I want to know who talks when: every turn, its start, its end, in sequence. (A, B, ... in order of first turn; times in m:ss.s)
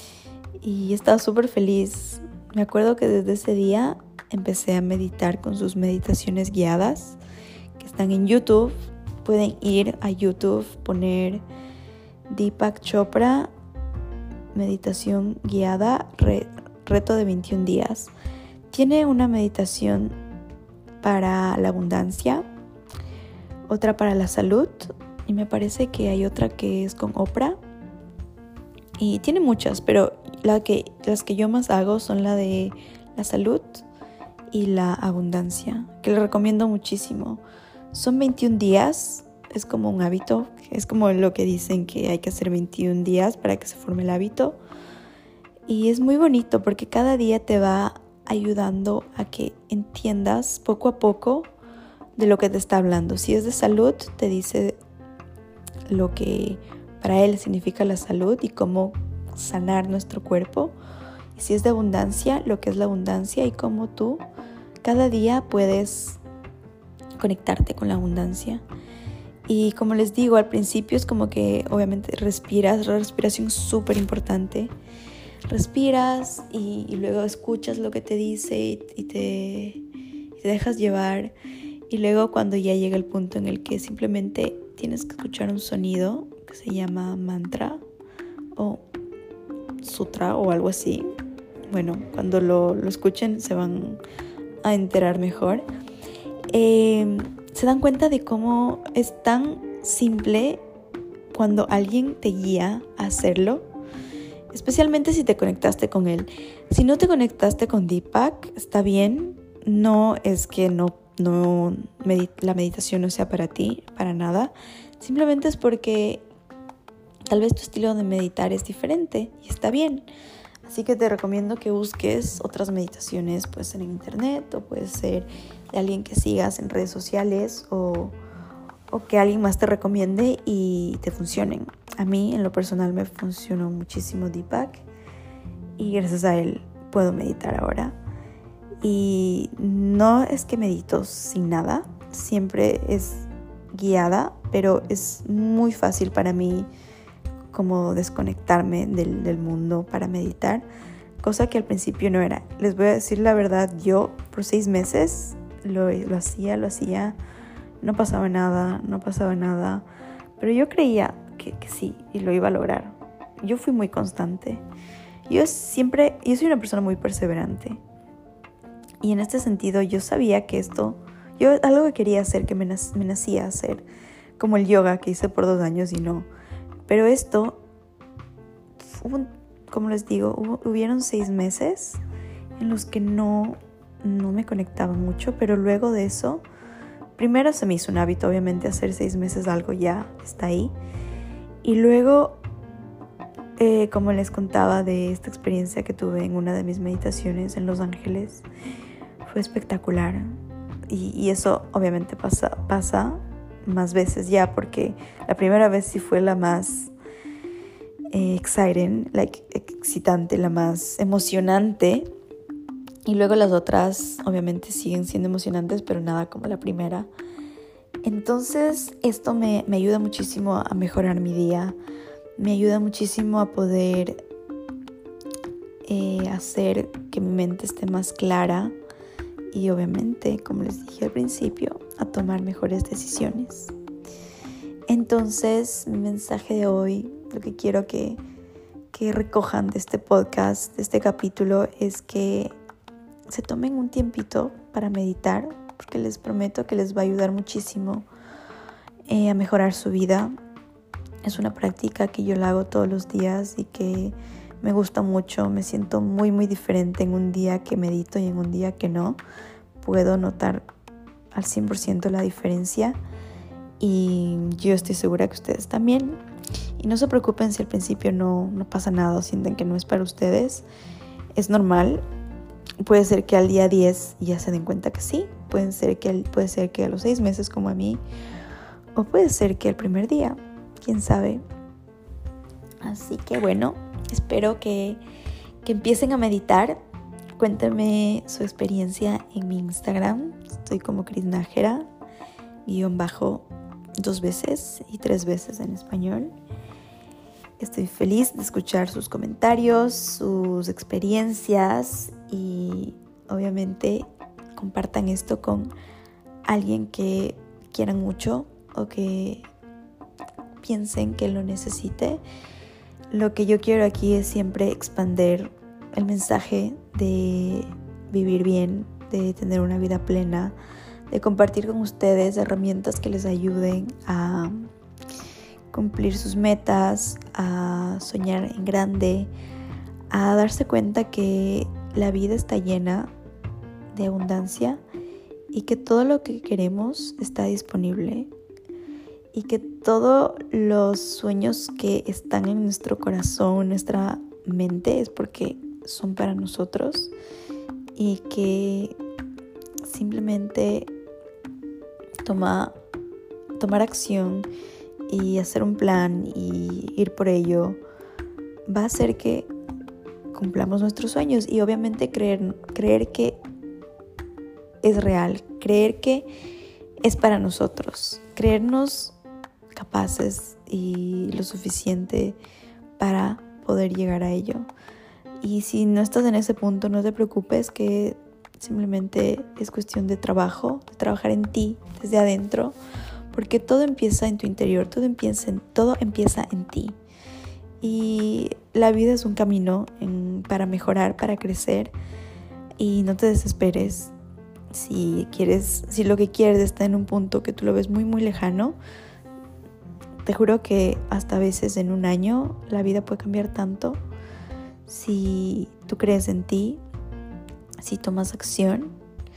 0:00.6-0:07.2 A
0:07.8-0:08.7 A
0:09.2-0:11.4 A
0:12.3-0:13.5 A
0:14.5-0:18.1 A
0:18.7-0:20.2 A
0:21.0-0:22.4 A
0:23.7-0:27.6 A
0:29.0-0:33.8 A
0:34.5-0:37.4 A
0:37.9-0:44.6 A
0:45.7-0:51.5 A
0:52.2-0:54.8 A
0:55.9-1:00.7 A
1:01.3-1:04.2 A
1:04.8-1:06.2 A
1:07.2-1:08.6 A
1:09.5-1:14.7 A
1:15.5-1:19.8 A
1:20.4-1:21.3 A
1:21.9-1:27.8 A
1:28.6-1:28.8 A
1:29.8-1:31.1 A
1:31.7-1:34.0 A
1:34.6-1:35.6 A
1:36.5-1:40.6 A
1:41.3-1:43.6 A
1:44.5-1:56.2 A
1:57.3-2:00.0 A
2:00.6-2:08.2 A
2:08.9-2:14.8 A
2:15.8-2:17.9 A
2:18.8-2:26.7 A
2:27.5-2:30.6 A
2:31.2-2:37.2 A
2:37.8-2:39.8 A
2:40.4-2:44.6 A
2:45.3-2:47.8 A
2:49.0-2:53.8 A
2:54.4-2:56.3 A
2:56.9-2:57.6 A
2:58.8-3:02.0 A
3:02.6-3:06.4 A
3:07.2-3:10.7 A
3:11.6-3:12.4 A
3:13.6-3:18.4 A
3:19.2-3:20.3 A
3:20.9-3:26.9 A
3:28.1-3:32.1 A
3:33.0-3:37.1 A
3:38.0-3:41.7 A
3:42.4-3:44.2 A
3:45.8-3:48.7 A
3:49.5-3:53.7 A
3:54.9-3:58.2 A
3:58.9-4:02.6 A
4:03.3-4:08.0 A
4:09.1-4:10.3 A
4:11.2-4:19.2 A
4:19.8-4:20.6 A
4:21.3-4:23.0 A
4:23.8-4:26.2 A
4:26.8-4:30.6 A
4:31.3-4:32.0 A
4:32.8-4:38.0 A
4:39.0-4:41.4 A
4:42.8-4:45.0 A
4:45.6-4:46.8 A
4:47.4-4:51.8 A
4:52.6-4:53.4 A
4:54.0-4:56.3 A
4:57.6-5:05.7 A
5:06.4-5:09.5 A
5:10.6-5:12.2 A
5:13.1-5:20.5 A
5:21.1-5:24.7 A
5:25.7-5:29.3 A
5:30.1-5:33.1 A
5:33.9-5:34.8 A
5:35.5-5:38.3 A
5:39.3-5:47.1 A
5:48.0-5:49.0 A
5:49.8-5:50.9 A
5:52.2-5:52.7 A
5:53.6-5:54.5 A
5:55.1-5:57.8 A
5:58.7-5:59.5 A
6:00.3-6:03.4 A
6:04.8-6:06.3 A
6:07.0-6:09.1 A
6:09.7-6:12.4 A
6:13.0-6:14.7 A
6:15.4-6:22.8 A
6:23.3-6:26.9 A
6:27.8-6:31.9 A
6:32.8-6:34.1 A
6:34.7-6:38.8 A
6:40.2-6:44.0 A
6:44.8-6:46.8 A
6:47.8-6:48.9 A